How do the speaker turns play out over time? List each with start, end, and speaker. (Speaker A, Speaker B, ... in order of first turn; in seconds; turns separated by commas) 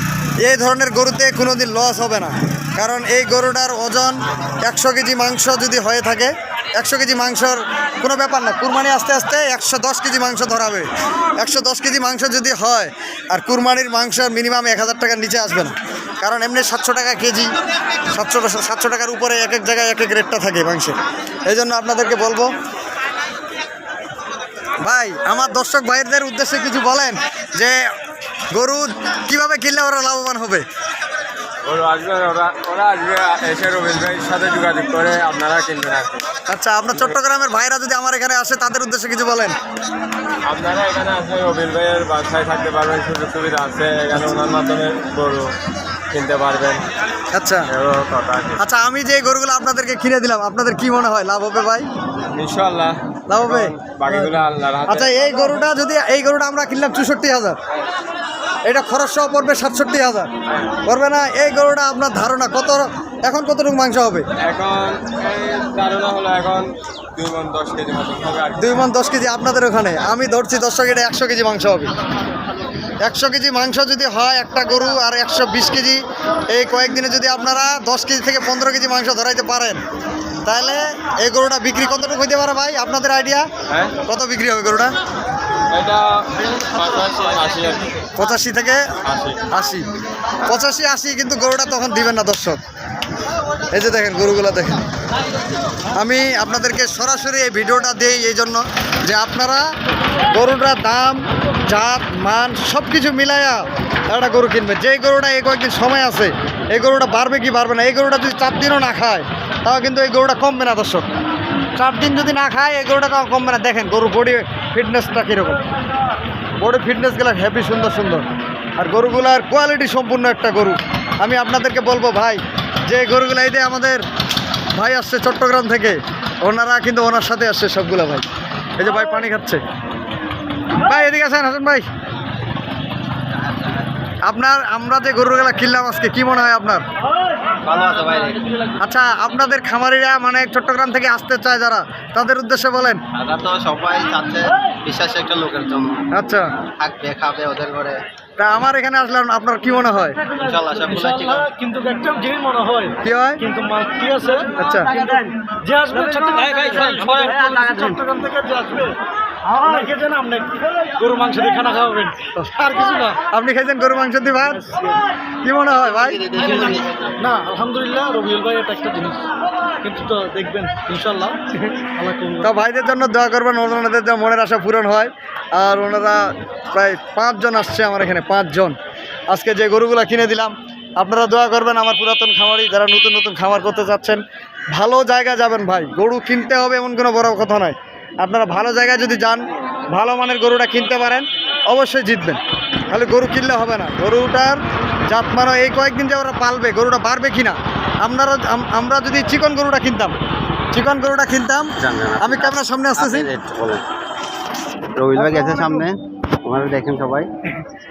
Speaker A: 0.4-17.5, Speaker A: 18.1-21.0, Speaker A: 21.5-22.5, Speaker A: 24.8-27.9, Speaker A: 28.5-30.6, Speaker B: 31.6-36.2, Speaker A: 36.5-39.6, Speaker B: 40.5-45.5, Speaker B: 46.1-46.8, Speaker A: 47.3-47.7, Speaker B: 47.7-48.6, Speaker A: 48.6-51.9, Speaker B: 52.3-55.7, Speaker A: 53.3-54.3, Speaker A: 54.9-57.6, Speaker A: 58.7-60.3, Speaker B: 60.5-60.8, Speaker A: 60.8-64.3, Speaker B: 64.4-68.8, Speaker A: 68.6-71.9, Speaker A: 73.0-79.8, Speaker A: 80.4-83.5, Speaker B: 83.7-84.0, Speaker A: 84.0-84.9, Speaker B: 85.7-88.1, Speaker A: 88.2-88.9, Speaker B: 89.0-89.4, Speaker A: 89.5-89.9, Speaker A: 90.5-92.6, Speaker A: 93.7-94.8, Speaker A: 96.0-99.7, Speaker A: 100.3-111.0, Speaker A: 111.8-115.6, Speaker A: 116.6-118.2, Speaker A: 118.8-124.0, Speaker A: 124.8-128.2, Speaker A: 128.8-129.6, Speaker A: 130.8-131.9, Speaker A: 134.3-136.8, Speaker C: 137.6-138.6, Speaker A: 138.8-143.0, Speaker C: 143.1-146.0, Speaker A: 146.1-146.5, Speaker C: 146.8-148.0, Speaker A: 148.4-150.2, Speaker C: 150.4-151.5, Speaker D: 150.8-154.5, Speaker A: 153.0-153.4, Speaker A: 154.6-154.9, Speaker D: 155.5-163.2, Speaker B: 156.4-156.9, Speaker A: 163.3-164.7, Speaker A: 165.4-166.4, Speaker C: 166.0-167.1, Speaker D: 167.2-169.3, Speaker D: 169.8-172.5, Speaker A: 172.4-178.8, Speaker A: 179.3-184.2, Speaker A: 184.7-200.2, Speaker A: 200.7-203.3, Speaker C: 201.8-203.8, Speaker C: 205.0-207.3, Speaker A: 205.1-205.9